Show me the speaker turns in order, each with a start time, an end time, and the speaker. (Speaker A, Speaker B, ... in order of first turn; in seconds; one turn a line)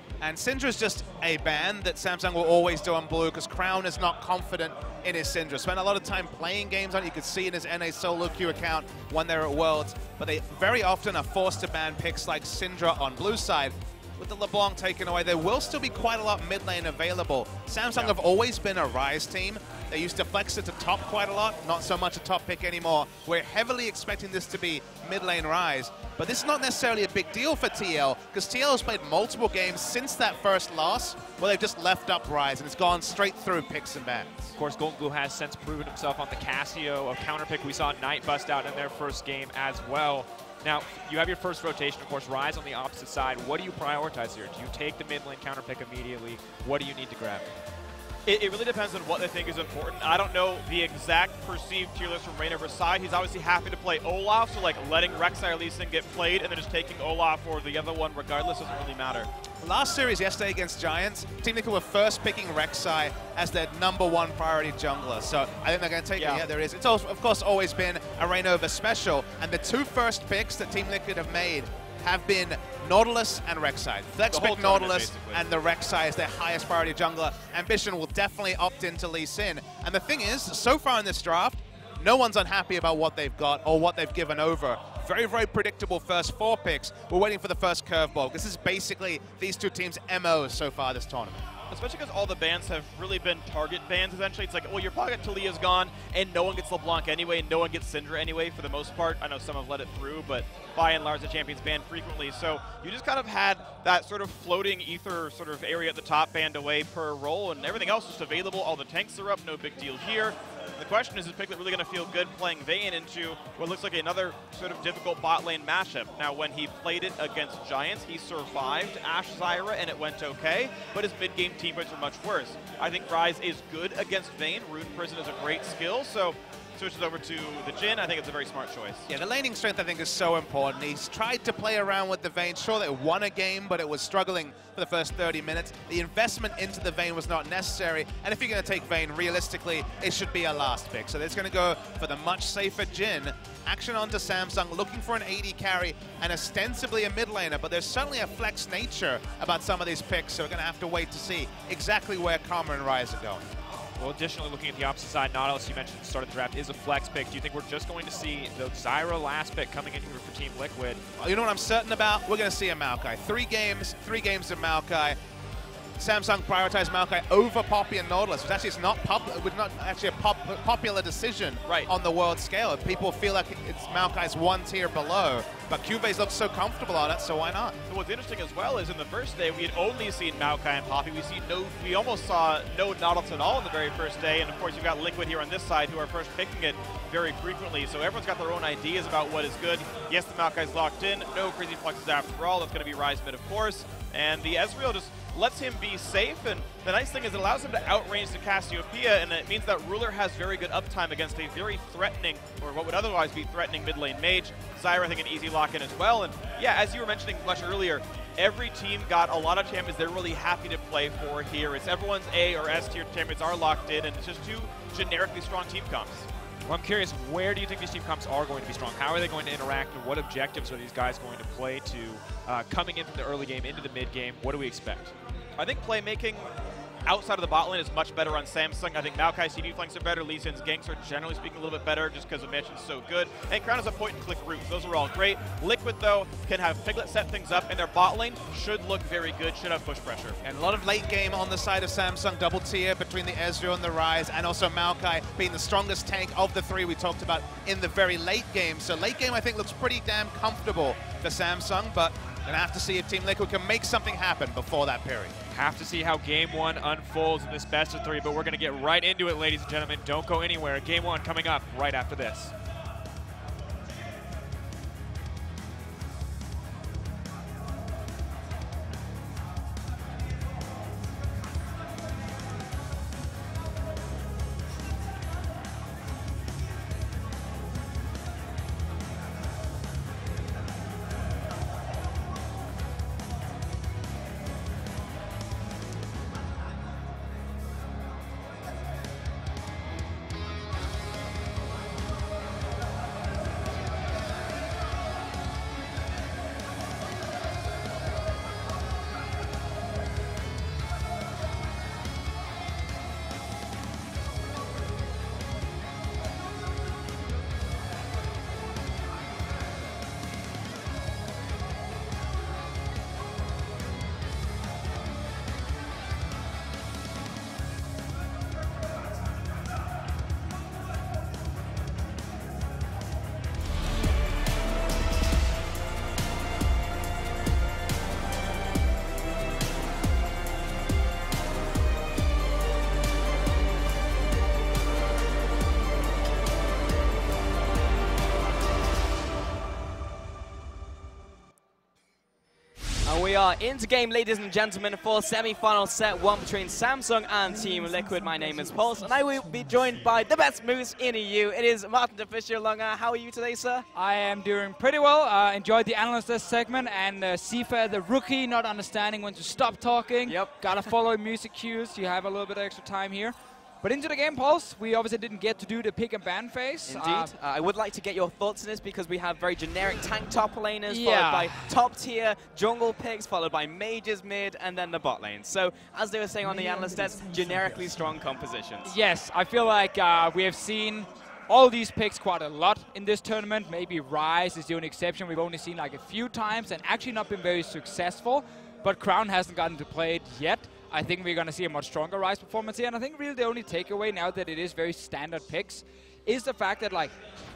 Speaker A: 0.2-34.5
Speaker B: 34.5-47.5
Speaker C: 48.2-59.3
Speaker A: 59.6-91.4
Speaker C: 66.2-66.4
Speaker C: 74.2-75.4
Speaker C: 91.7-129.1
Speaker A: 129.1-153.4
Speaker B: 154.0-161.0
Speaker A: 161.2-165.2
Speaker A: 166.0-177.7
Speaker C: 177.9-216.3
Speaker B: 216.7-225.1
Speaker C: 225.6-226.5
Speaker C: 227.1-240.4
Speaker A: 240.4-255.3
Speaker B: 255.5-262.5
Speaker D: 343.0-353.9
Speaker E: 353.9-367.3
Speaker D: 360.3-360.6
Speaker D: 366.9-378.9
Speaker E: 370.9-371.7
Speaker E: 378.8-397.1